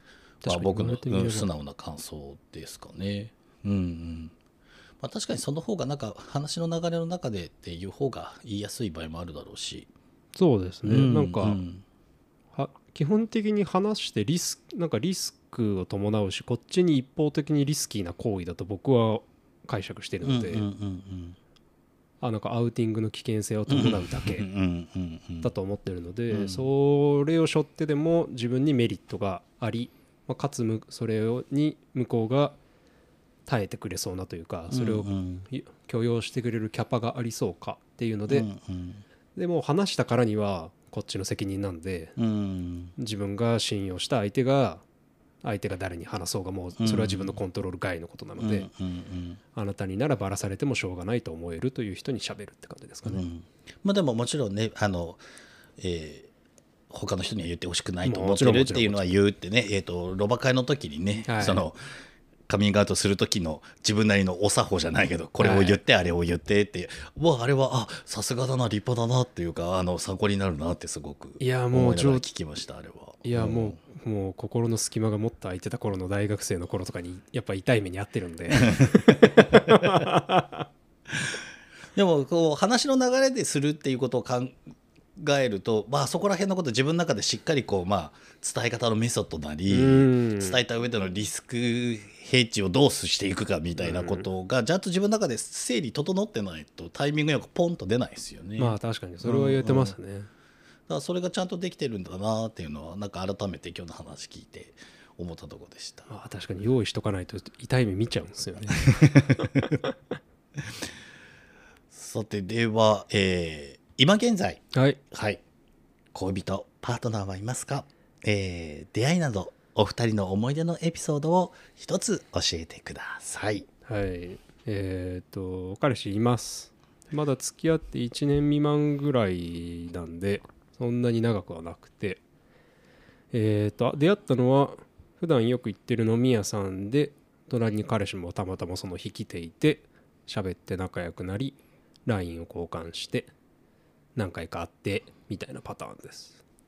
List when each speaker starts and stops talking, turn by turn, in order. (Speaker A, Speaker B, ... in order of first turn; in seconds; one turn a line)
Speaker A: 0.4-1.5
Speaker B: 0.4-4.3
Speaker B: 5.0-9.9
Speaker A: 10.3-11.6
Speaker B: 10.8-11.8
Speaker A: 12.5-20.7
Speaker B: 20.2-21.4
Speaker A: 22.2-24.5
Speaker B: 23.7-25.5
Speaker A: 25.4-32.6
Speaker B: 26.3-26.7
Speaker A: 33.5-38.5
Speaker B: 34.7-35.5
Speaker B: 38.3-39.0
Speaker A: 39.4-42.1
Speaker B: 42.2-42.9
Speaker A: 43.0-44.8
Speaker A: 45.4-48.7
Speaker B: 46.8-47.4
Speaker B: 48.4-49.4
Speaker A: 49.5-53.2
Speaker B: 53.0-55.2
Speaker B: 55.8-56.3
Speaker B: 56.9-61.8
Speaker A: 58.0-59.2
Speaker A: 61.2-61.6
Speaker B: 62.5-73.8
Speaker A: 65.4-65.8
Speaker A: 71.4-72.2
Speaker A: 73.2-80.7
Speaker B: 78.7-80.0
Speaker B: 81.9-84.6
Speaker B: 85.2-100.0
Speaker A: 89.7-90.6
Speaker A: 93.8-94.3
Speaker A: 98.6-100.3
Speaker B: 100.9-106.1
Speaker A: 106.1-109.7
Speaker B: 108.9-109.5
Speaker B: 111.9-115.4
Speaker A: 114.7-115.0
Speaker B: 116.1-123.7
Speaker A: 123.8-132.2
Speaker A: 133.3-143.3
Speaker A: 144.2-146.4